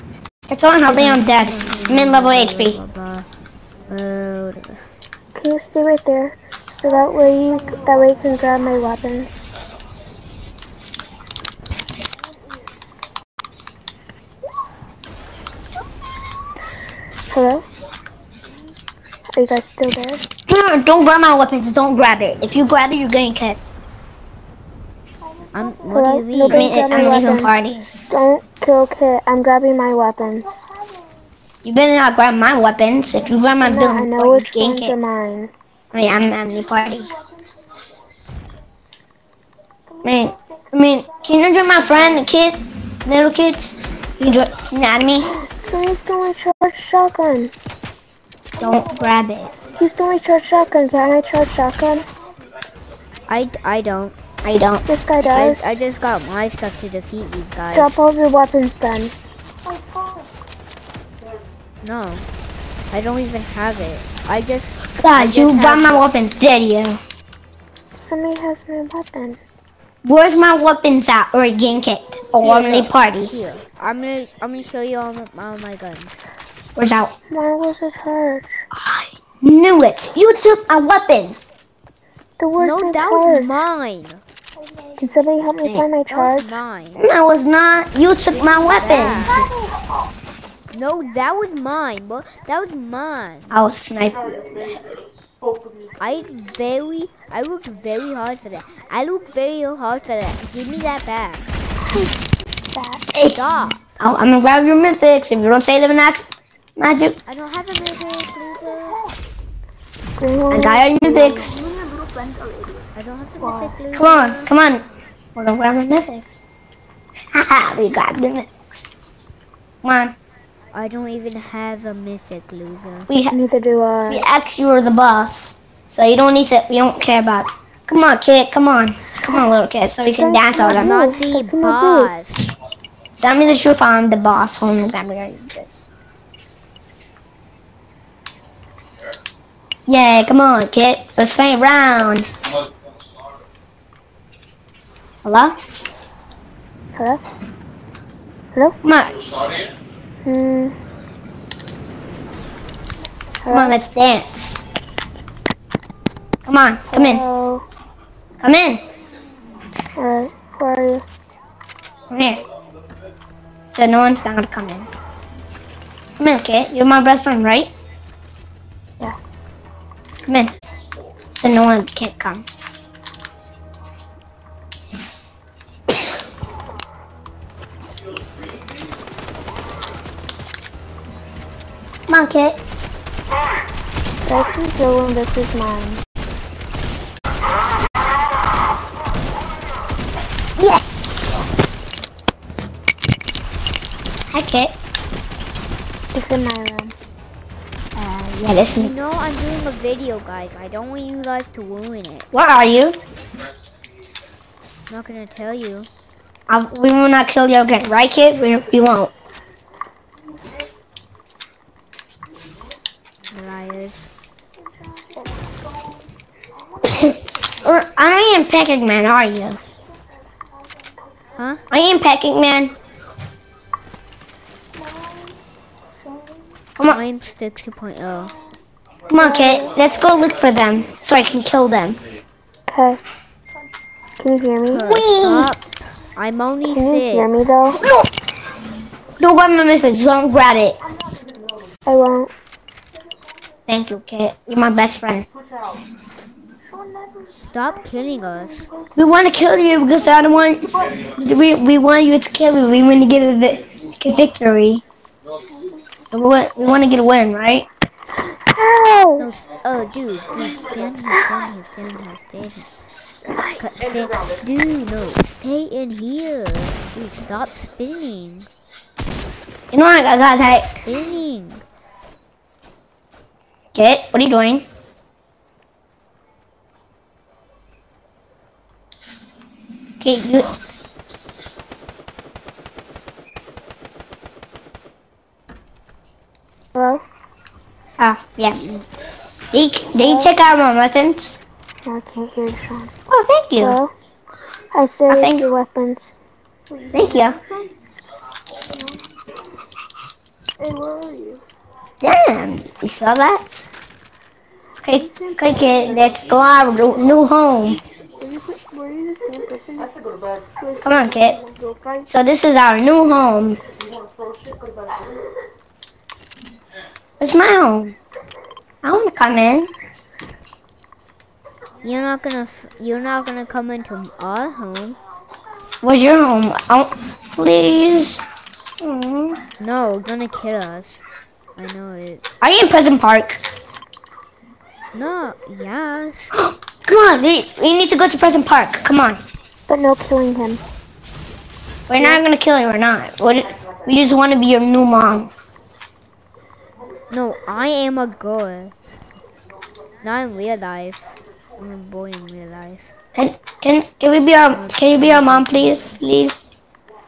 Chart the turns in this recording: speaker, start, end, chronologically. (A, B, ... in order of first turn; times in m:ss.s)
0:00.5-0:02.8 A
0:00.9-0:03.3 B
0:03.9-0:04.8 B
0:05.4-0:09.3 C
0:17.3-0:17.6 C
0:19.3-0:20.3 C
0:20.5-0:23.6 A
0:25.5-0:26.8 B
0:25.9-0:27.5 C
0:26.5-0:27.9 A
0:28.1-0:30.6 C
0:31.6-0:34.9 A
0:33.6-0:35.5 C
0:35.9-0:37.1 A
0:40.0-0:45.3 A
0:45.4-0:47.5 C
0:48.6-0:49.5 A
0:49.7-0:52.1 C
0:53.3-0:54.2 B
0:54.4-0:54.8 A
0:54.9-0:55.6 C
0:55.3-0:58.0 B
0:57.7-0:59.2 C
1:01.8-1:02.3 B
1:02.9-1:06.0 B
1:04.9-1:07.0 A
1:08.0-1:09.4 C
1:10.0-1:13.3 A
1:12.4-1:16.2 B
1:16.8-1:17.1 A
1:17.3-1:18.6 C
1:18.8-1:21.4 A
1:22.4-1:23.5 C
1:22.6-1:24.2 B
1:25.0-1:26.6 C
1:26.1-1:27.0 B
1:27.0-1:29.4 A
1:28.3-1:29.5 B
1:30.7-1:33.6 B
1:33.5-1:34.8 A
1:36.0-1:41.5 B
1:42.7-1:43.0 C
1:43.1-1:43.4 A
1:43.3-1:43.9 B
1:44.0-1:46.2 A
1:46.8-1:47.2 A
1:47.3-1:49.0 B
1:50.2-1:51.8 C
1:50.5-1:51.6 A
1:53.0-1:54.5 B
1:53.9-1:54.8 A
1:55.4-1:56.4 A
1:57.3-1:58.9 A
1:59.8-2:00.2 A
2:00.7-2:03.1 B
2:03.1-2:03.4 A
2:03.3-2:04.2 C
2:04.1-2:11.0 A
2:10.2-2:12.1 C
2:10.5-2:12.5 B
2:13.2-2:15.9 A
2:19.9-2:22.3 A
2:25.2-2:25.6 A
2:26.9-2:27.2 C
2:28.8-2:29.2 A
2:30.2-2:30.8 C
2:33.4-2:33.8 C
2:33.5-2:34.6 A
2:36.5-2:37.2 A
2:36.9-2:37.6 C
2:38.4-2:38.8 A
2:40.0-2:41.0 C
2:42.1-2:42.4 A
2:43.7-2:44.9 A
2:46.2-2:47.7 A
2:50.3-2:50.6 A
2:51.3-2:52.4 A
3:02.1-3:02.6 A
3:04.3-3:06.0 C
3:10.6-3:11.4 A
3:14.3-3:14.7 A
3:16.1-3:17.0 C
3:18.0-3:18.9 A
3:18.7-3:22.3 B
3:22.3-3:23.0 A
3:24.9-3:25.9 B
3:26.5-3:29.1 A
3:33.3-3:34.1 B
3:36.8-3:39.6 A
3:41.4-3:41.6 B
3:41.7-3:42.7 A
3:46.9-3:48.3 B
3:49.1-3:52.0 A
3:49.2-3:49.7 C
3:52.7-3:53.0 C
3:54.2-3:54.9 C
3:54.7-3:55.6 B
3:54.8-3:55.5 A
3:56.2-3:57.4 B
3:56.7-3:57.8 C
3:57.8-3:58.1 A
3:59.2-4:00.8 A
4:01.9-4:02.3 C
4:03.7-4:05.3 A
4:06.8-4:07.3 C
4:07.4-4:08.7 B
4:09.0-4:14.8 A
4:16.1-4:17.7 A
4:18.5-4:19.3 C
4:19.2-4:22.7 B
4:23.6-4:28.5 B
4:29.7-4:30.8 A
4:30.8-4:31.6 B
4:33.8-4:34.6 A
4:40.0-4:40.5 A
4:46.8-4:47.0 C
4:48.0-4:48.8 A
4:49.5-4:51.4 A
4:50.0-4:50.3 C
4:51.8-4:52.9 C
4:53.1-4:53.8 A
4:53.6-4:53.9 C
4:54.7-4:56.1 C
4:55.1-4:55.5 A
4:56.7-4:57.7 C
4:56.9-4:57.4 A
5:00.6-5:01.4 C
5:02.0-5:03.4 A
5:04.8-5:07.8 A
5:08.2-5:10.0 C
5:10.8-5:11.4 A
5:12.1-5:13.6 A
5:17.2-5:18.0 A
5:18.8-5:19.7 A
5:21.8-5:25.0 B
5:25.8-5:28.2 A
5:28.8-5:29.4 A
5:29.6-5:31.0 B
5:31.6-5:32.2 B
5:32.4-5:33.4 A
5:34.9-5:36.3 B
5:36.3-5:39.2 A
5:39.7-5:40.6 C
5:41.9-5:45.3 A
5:47.1-5:48.7 B
5:50.0-5:52.9 B
5:53.2-5:56.5 A
5:54.5-5:55.9 B